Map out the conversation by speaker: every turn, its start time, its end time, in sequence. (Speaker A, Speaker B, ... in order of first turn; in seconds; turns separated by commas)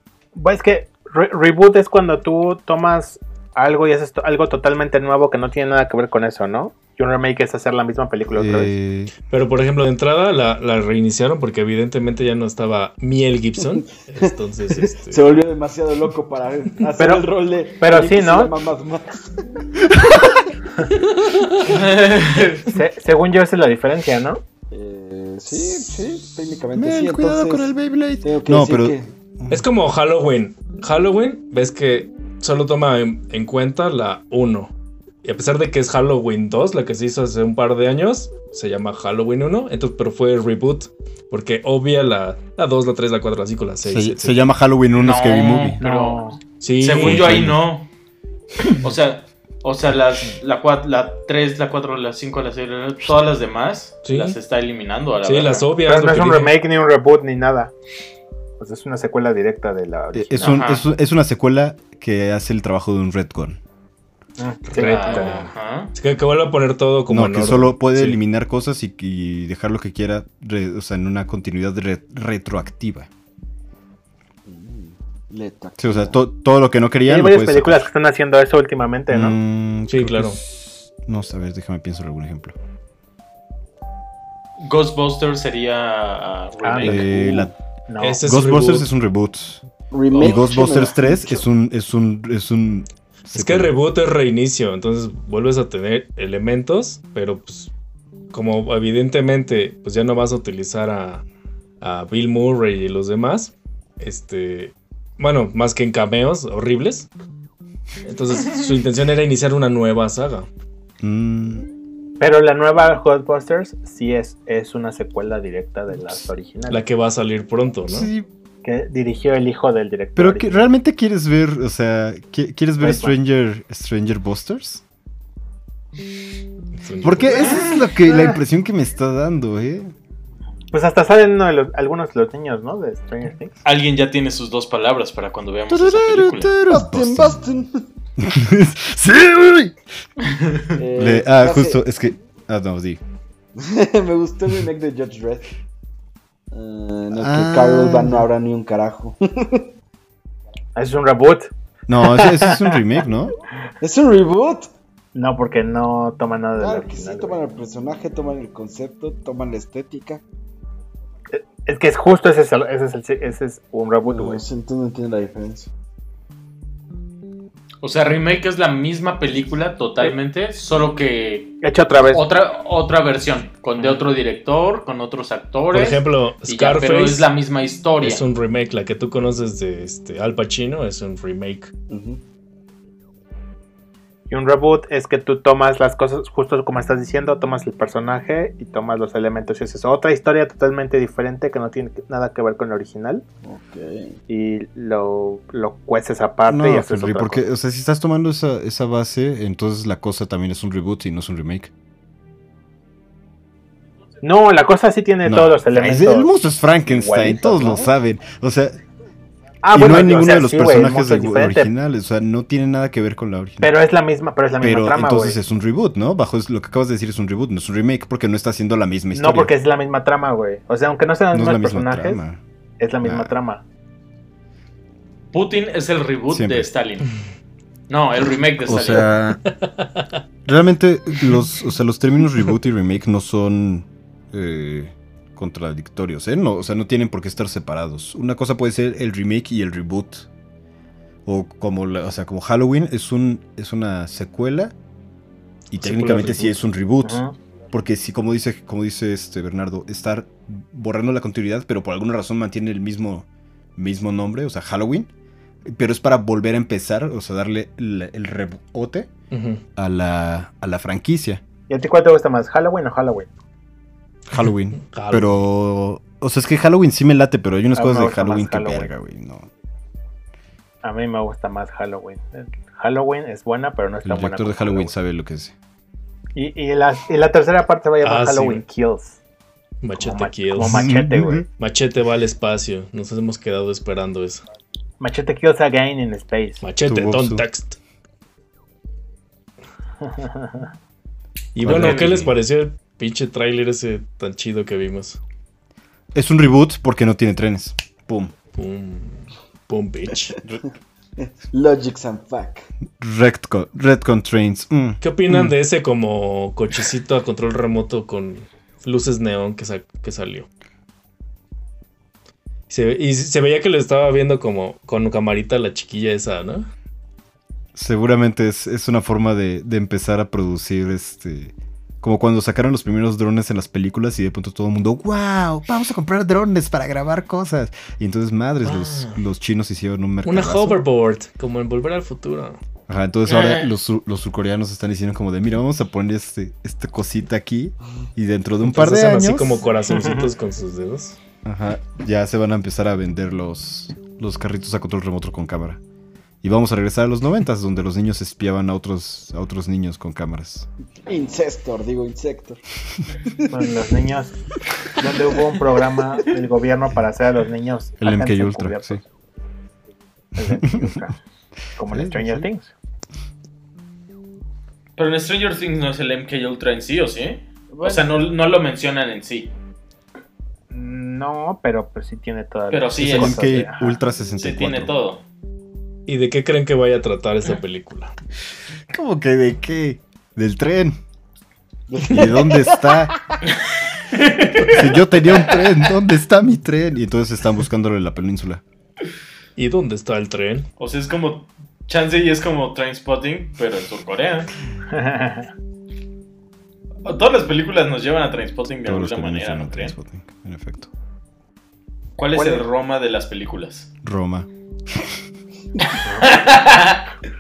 Speaker A: 0.3-8.7, Speaker B: 8.3-9.1, Speaker C: 9.3-15.4, Speaker D: 14.2-19.7, Speaker A: 17.0-18.5, Speaker B: 19.9-20.2, Speaker C: 21.0-21.7, Speaker E: 21.6-22.7, Speaker A: 22.6-24.4, Speaker D: 24.7-27.7, Speaker B: 26.8-29.6, Speaker D: 28.2-29.1, Speaker C: 29.5-34.7, Speaker C: 35.2-44.5, Speaker B: 43.8-45.8, Speaker E: 45.0-46.2, Speaker A: 45.8-46.4, Speaker C: 46.6-47.5, Speaker E: 46.8-47.9, Speaker B: 47.0-47.6, Speaker E: 48.8-55.7, Speaker C: 54.0-54.4, Speaker C: 55.2-56.6, Speaker A: 55.9-57.7, Speaker A: 58.6-60.7, Speaker B: 60.1-63.6, Speaker E: 60.4-60.9, Speaker A: 64.4-65.5, Speaker C: 64.7-68.2, Speaker E: 64.8-65.9, Speaker B: 67.1-73.1, Speaker D: 74.5-76.2, Speaker B: 75.8-77.9, Speaker A: 77.1-79.4, Speaker B: 79.1-82.5, Speaker C: 79.9-80.4, Speaker E: 84.6-87.3, Speaker A: 86.6-88.2, Speaker B: 86.8-87.5, Speaker C: 88.0-88.9, Speaker B: 88.2-89.7, Speaker D: 89.9-91.4, Speaker E: 90.1-90.4, Speaker B: 90.2-93.7, Speaker C: 93.3-97.7, Speaker C: 98.3-101.2, Speaker C: 101.8-107.1, Speaker C: 108.0-110.5, Speaker B: 111.0-111.7, Speaker A: 112.2-116.8, Speaker C: 116.7-118.1, Speaker B: 117.9-118.3, Speaker A: 118.6-120.7, Speaker B: 120.2-124.8, Speaker A: 122.8-123.2, Speaker C: 126.8-127.6, Speaker B: 127.0-129.9, Speaker A: 127.4-128.3, Speaker A: 130.7-133.5, Speaker E: 133.6-136.5, Speaker B: 135.7-137.4, Speaker D: 136.7-137.9, Speaker B: 138.2-139.8, Speaker E: 140.2-140.7, Speaker D: 140.8-141.8, Speaker B: 141.0-143.0, Speaker D: 143.6-145.5, Speaker D: 146.5-149.7, Speaker B: 147.1-148.3, Speaker A: 150.8-152.8, Speaker B: 151.9-153.3, Speaker D: 153.8-154.7, Speaker A: 155.2-157.4, Speaker D: 156.6-160.2, Speaker A: 161.3-164.4, Speaker D: 164.1-165.7, Speaker E: 167.8-171.6, Speaker A: 171.6-172.2, Speaker E: 172.1-178.2, Speaker A: 173.8-174.1, Speaker C: 175.7-177.3, Speaker C: 178.0-181.7, Speaker D: 181.9-182.2, Speaker A: 184.3-193.2, Speaker D: 193.4-194.2, Speaker A: 194.3-197.4, Speaker B: 196.5-201.7, Speaker A: 204.2-206.3, Speaker B: 205.2-208.8, Speaker A: 206.9-207.9, Speaker A: 209.6-211.7, Speaker B: 209.7-213.7, Speaker A: 213.6-215.4, Speaker B: 214.6-219.5, Speaker A: 219.1-222.2, Speaker B: 221.3-222.4, Speaker A: 222.8-223.6, Speaker B: 223.0-223.3, Speaker E: 225.3-227.1, Speaker B: 226.3-226.7, Speaker E: 227.9-229.1, Speaker B: 228.6-229.4, Speaker C: 229.5-230.1, Speaker B: 230.5-240.3, Speaker B: 241.3-244.8, Speaker B: 245.7-255.1, Speaker C: 245.8-246.6, Speaker A: 247.0-247.3, Speaker B: 255.7-259.1, Speaker C: 259.3-259.6, Speaker B: 259.8-261.4, Speaker A: 261.7-263.3, Speaker B: 264.3-269.5, Speaker C: 264.8-265.4, Speaker A: 267.8-268.9, Speaker A: 270.8-274.9, Speaker B: 274.0-275.6, Speaker A: 276.4-279.2, Speaker C: 278.0-278.6, Speaker C: 279.8-280.9, Speaker A: 280.0-281.5, Speaker B: 280.6-281.5, Speaker C: 281.6-284.4, Speaker A: 285.0-286.6, Speaker C: 286.6-287.8, Speaker B: 286.9-287.4, Speaker A: 290.1-290.7, Speaker C: 291.6-295.2, Speaker B: 291.6-292.3, Speaker E: 291.7-292.1, Speaker B: 296.1-298.3, Speaker C: 298.6-300.4, Speaker D: 301.2-302.7, Speaker B: 303.0-305.5, Speaker C: 305.0-310.5, Speaker C: 312.7-316.7, Speaker B: 317.8-330.8, Speaker C: 328.7-329.2, Speaker C: 330.2-332.6, Speaker B: 332.9-339.6, Speaker E: 333.3-333.7, Speaker C: 338.6-341.2, Speaker A: 339.9-340.3, Speaker B: 341.4-345.8, Speaker B: 346.4-350.7, Speaker D: 351.1-352.6, Speaker D: 353.2-353.6, Speaker A: 353.5-354.4, Speaker A: 355.0-359.0, Speaker B: 358.0-359.0, Speaker A: 360.4-361.2, Speaker B: 360.5-361.0, Speaker A: 361.8-362.7, Speaker B: 361.9-362.5, Speaker E: 365.0-369.5, Speaker D: 367.7-368.1, Speaker A: 370.7-374.0, Speaker E: 372.7-373.5, Speaker B: 373.0-374.9, Speaker E: 374.4-375.2, Speaker C: 376.1-378.1, Speaker B: 378.9-381.0, Speaker D: 381.9-383.3, Speaker B: 382.1-383.1, Speaker E: 383.5-385.5, Speaker B: 384.6-388.6, Speaker C: 389.6-390.7, Speaker E: 390.8-394.5, Speaker A: 394.9-395.5, Speaker E: 397.1-399.9, Speaker B: 398.9-400.9, Speaker E: 402.2-403.9, Speaker A: 402.4-402.6, Speaker B: 404.0-405.1, Speaker E: 405.9-407.1, Speaker A: 406.0-406.5